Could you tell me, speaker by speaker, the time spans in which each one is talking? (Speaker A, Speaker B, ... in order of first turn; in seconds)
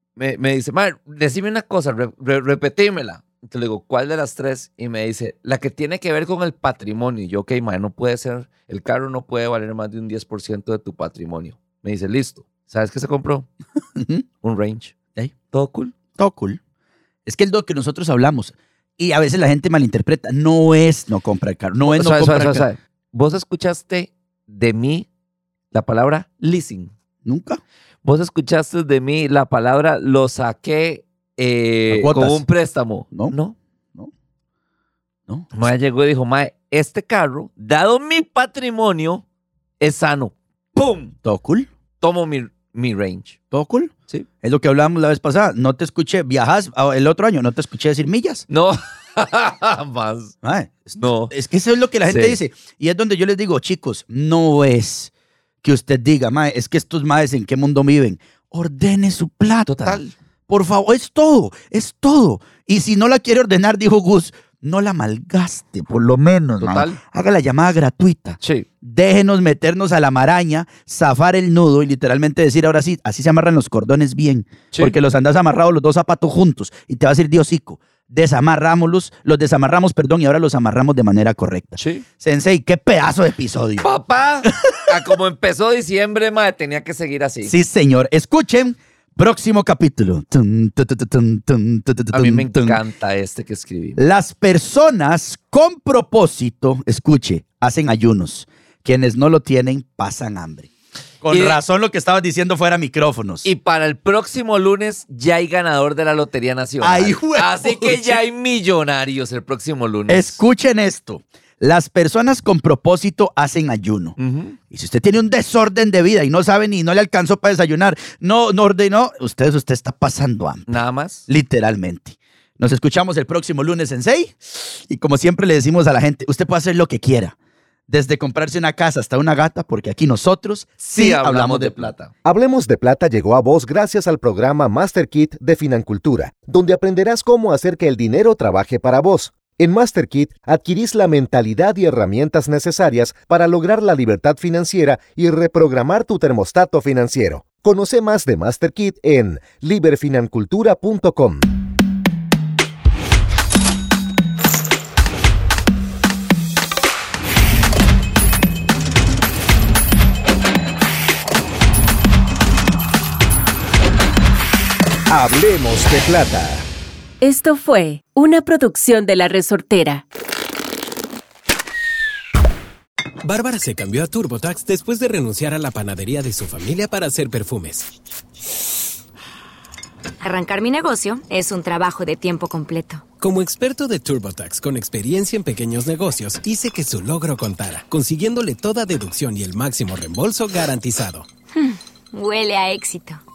Speaker A: 0.2-13.5, 14.4-14.9, 15.5-15.9, 21.9-25.1, 25.7-26.9, 28.0-33.6, 35.5-39.2, 39.8-41.1, 42.0-43.4, 48.5-50.4, 51.0-51.3, 52.0-52.4, 59.7-60.1, 66.6-67.0, 68.4-68.7, 81.8-82.0, 83.8-87.5, 92.1-94.0, 101.3-101.6, 103.4-110.4, 114.2-114.6, 120.7-121.3, 130.8-132.1
Speaker B: 13.9-14.2, 16.1-16.6, 17.3-22.7, 27.2-27.6, 31.9-32.5, 41.2-41.7, 43.5-48.5, 50.4-55.1, 55.6-83.8, 84.4-84.9, 87.5-92.8, 94.0-100.7, 101.2-103.5, 106.8-108.2, 110.1-114.2, 114.7-127.3, 127.9-131.9
Speaker C: 132.2-151.5, 165.1-166.6
Speaker D: 167.2-170.0
Speaker E: 173.2-177.9, 183.2-191.3
Speaker F: 180.2-183.0, 191.5-193.2